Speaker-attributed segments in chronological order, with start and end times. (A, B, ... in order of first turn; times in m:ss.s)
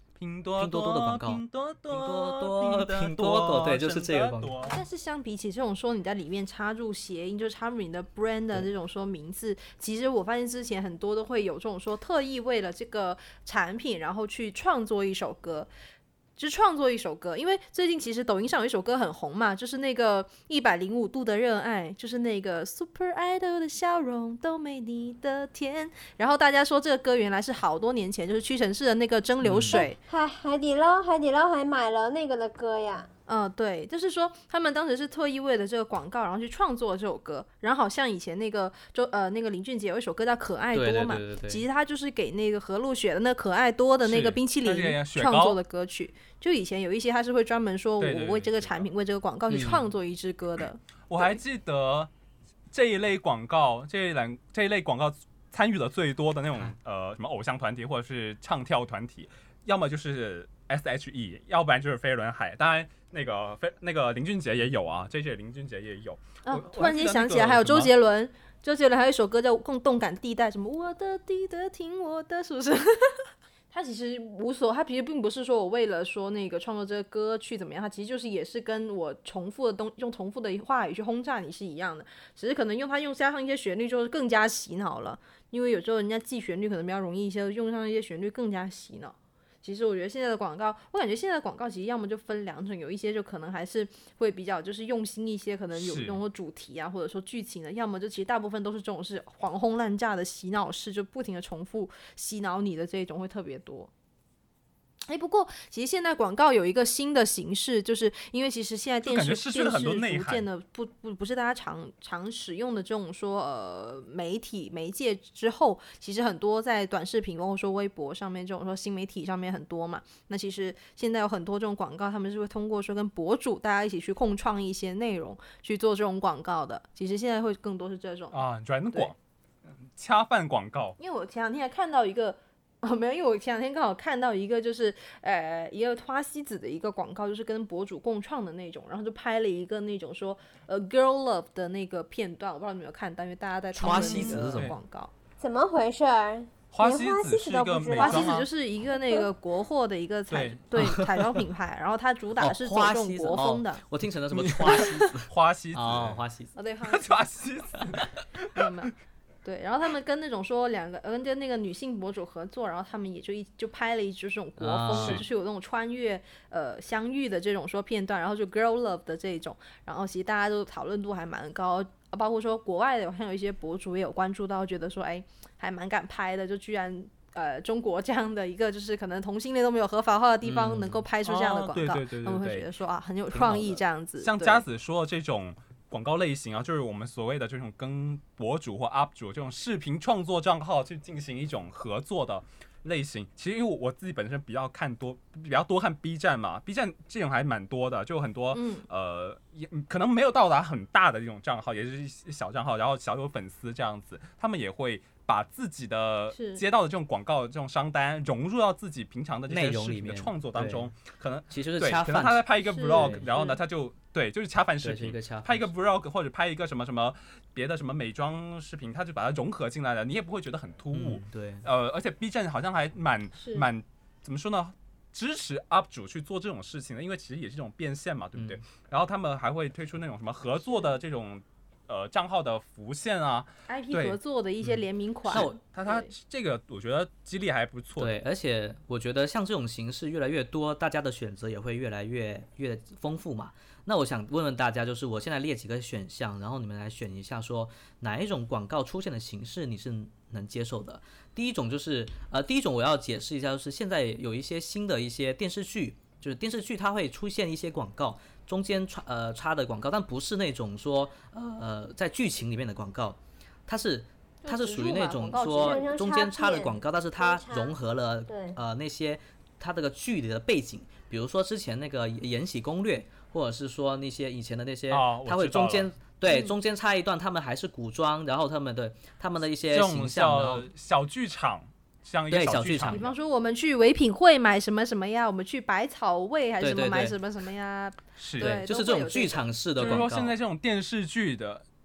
0:00.2-0:04.8 A
0:00.6-0:04.6 B
0:04.6-0:15.7 C
0:16.4-0:30.0 C
0:29.4-0:29.9 B
0:29.7-0:33.1 D
0:33.3-0:51.2 C
0:40.7-0:41.6 B
0:44.0-0:45.6 A
0:48.0-0:48.9 A
0:49.5-0:49.8 B
0:51.1-0:52.1 A
0:52.7-1:07.9 A
1:06.5-1:43.9 C
1:35.8-1:36.2 A
1:45.1-2:08.4 C
1:49.0-1:50.5 A
2:08.3-2:09.2 A
2:10.0-2:11.0 A
2:11.0-2:25.1 C
2:23.8-2:24.7 B
2:23.8-2:24.8 A
2:25.4-2:28.4 D
2:26.7-2:28.5 A
2:27.9-2:33.8 C
2:30.3-2:30.7 A
2:30.8-2:31.3 B
2:32.4-2:36.6 B
2:34.3-2:36.2 A
2:36.6-2:37.2 C
2:36.9-2:38.8 A
2:38.6-3:04.6 C
2:44.6-2:45.2 B
2:44.9-2:45.2 A
3:00.4-3:01.0 B
3:01.2-3:02.7 A
3:03.3-3:03.8 B
3:04.2-3:54.2 A
3:18.5-3:18.9 C
3:26.3-3:26.6 C
3:29.5-3:30.9 B
3:31.5-3:33.2 B
3:32.6-3:33.6 C
3:34.8-3:35.7 B
3:40.9-3:41.6 B
3:43.4-3:43.7 C
3:48.4-3:48.6 B
3:53.7-3:56.1 C
3:54.6-3:55.6 B
3:55.3-3:58.2 A
3:58.0-4:40.7 B
4:24.4-4:25.9 C
4:25.6-4:27.8 D
4:28.3-4:28.6 D
4:34.9-4:35.9 A
4:36.3-4:36.6 C
4:39.7-4:43.2 A
4:42.3-4:43.0 B
4:42.9-4:50.1 C
4:46.6-4:47.2 B
4:48.2-4:48.6 A
4:48.4-4:50.4 B
4:49.8-4:51.6 A